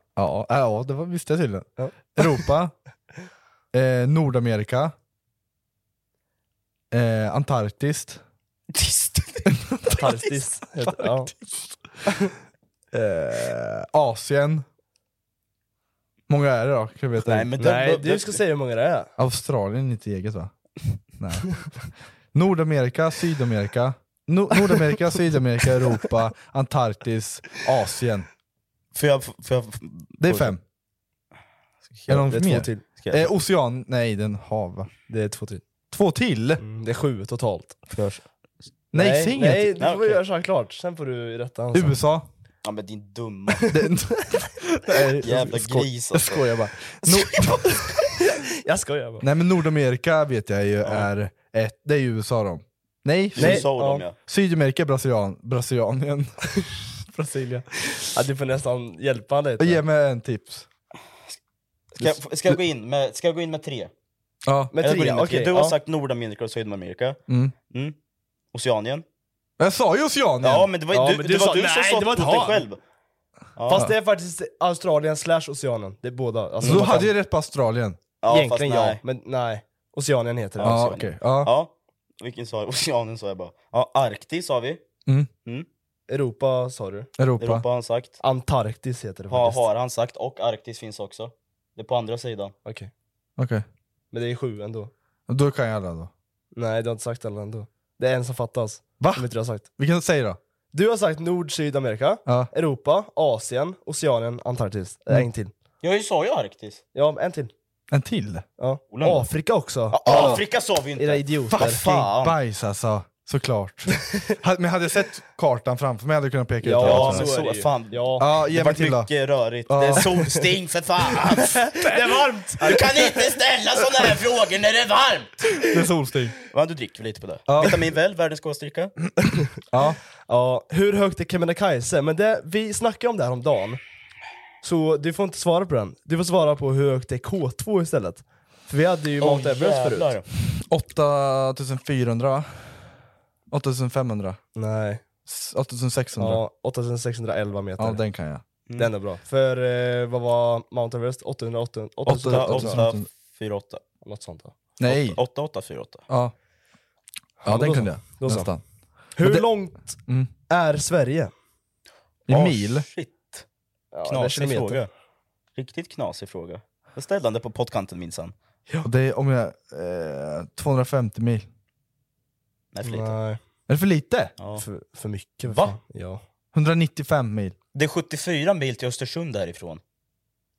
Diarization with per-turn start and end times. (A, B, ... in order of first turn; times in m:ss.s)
0:00.2-0:02.7 A
0:01.8-0:02.3 B
0:03.7-0:04.9 A
0:06.9-0:08.2 A
0:08.7-0:09.5 C
0:09.7-0:10.1 A
0:10.0-0:11.3 B
0:10.9-0:11.8 A
0:12.9-0:14.6 A
0:16.3-0:17.6 A
0:17.2-0:18.4 C
0:17.6-0:19.1 B
0:19.2-0:20.5 A
0:21.2-0:21.5 A
0:22.3-0:28.3 A
0:28.9-0:30.6 C
0:30.2-0:30.6 A
0:32.1-0:34.9 A
0:32.1-0:32.8 B
0:33.0-0:33.3 C
0:35.1-0:35.6 B
0:35.9-0:36.6 A
0:36.6-0:37.8 B
0:37.9-0:38.2 C
0:38.9-0:39.8 A
0:38.9-0:42.0 B
0:39.8-0:40.2 C
0:41.7-0:42.3 A
0:42.6-0:43.7 C
0:43.7-0:47.8 A
0:45.2-0:46.4 C
0:47.1-0:47.5 C
0:48.2-0:49.3 B
0:49.2-0:53.7 A
0:50.8-0:51.1 C
0:53.4-0:54.2 C
0:53.4-0:54.0 B
0:54.3-0:56.3 A
0:57.1-0:57.7 A
0:58.1-0:59.8 B
0:59.6-1:00.7 A
1:02.0-1:03.9 C
1:02.0-1:02.6 A
1:04.5-1:04.7 A
1:04.7-1:05.8 B
1:04.8-1:07.2 C
1:07.3-1:07.5 A
1:08.5-1:09.0 C
1:09.6-1:10.7 A
1:10.4-1:12.8 C
1:10.9-1:12.6 B
1:13.6-1:13.9 C
1:13.7-1:17.1 B
1:16.6-1:17.0 C
1:16.6-1:18.0 A
1:18.2-1:19.0 C
1:18.3-1:20.8 B
1:20.6-1:24.8 C
1:20.6-1:21.5 A
1:26.1-1:27.1 B
1:27.2-1:27.6 A
1:27.4-1:28.2 C
1:28.2-1:29.6 B
1:29.3-1:32.5 C
1:32.6-1:32.9 B
1:33.4-1:33.6 A
1:34.1-1:34.9 B
1:35.3-1:36.1 A
1:36.6-1:39.7 B
1:39.0-1:40.4 A
1:40.7-1:45.5 B
1:45.8-1:46.8 C
1:47.0-1:47.5 B
1:47.9-1:48.4 A
1:48.6-1:50.4 B
1:48.9-1:49.3 C
1:49.9-1:52.4 C
1:50.0-1:50.4 A
1:51.0-1:51.8 B
1:51.5-1:57.3 A
1:56.6-1:58.2 B
1:56.8-2:01.6 C
1:58.2-1:59.1 A
1:59.7-2:00.1 A
1:59.9-2:00.3 B
2:01.4-2:03.2 B
2:02.6-2:05.5 C
2:05.6-2:06.4 A
2:06.5-2:08.9 C
2:07.5-2:07.8 A
2:09.7-2:10.0 A
2:10.3-2:13.8 B
2:14.6-2:20.1 B
2:19.2-2:20.2 C
2:20.6-2:22.9 A
2:23.5-2:24.4 A
2:24.6-2:25.0 B
2:25.3-2:26.4 A
2:26.2-2:28.0 B
2:27.8-2:28.4 A
2:28.8-2:32.8 B
2:32.1-2:33.8 C
2:32.1-2:33.1 A
2:34.0-2:34.6 B
2:34.8-2:35.2 A
2:34.8-2:36.1 C
2:37.4-2:38.5 B
2:37.4-2:38.6 A
2:39.2-2:41.3 B
2:39.2-2:39.5 A
2:40.1-2:40.3 A
2:42.3-2:42.9 A
2:42.3-2:43.4 C
2:43.9-2:44.9 B
2:44.1-2:44.9 C
2:45.6-2:48.3 C
2:48.8-2:51.5 A
2:52.7-2:53.1 C
2:52.8-2:53.4 B
2:53.7-2:54.3 A
2:54.4-2:54.6 C
2:54.6-2:56.2 B
2:55.5-2:55.7 C
2:56.5-2:57.6 A
2:57.7-2:59.8 C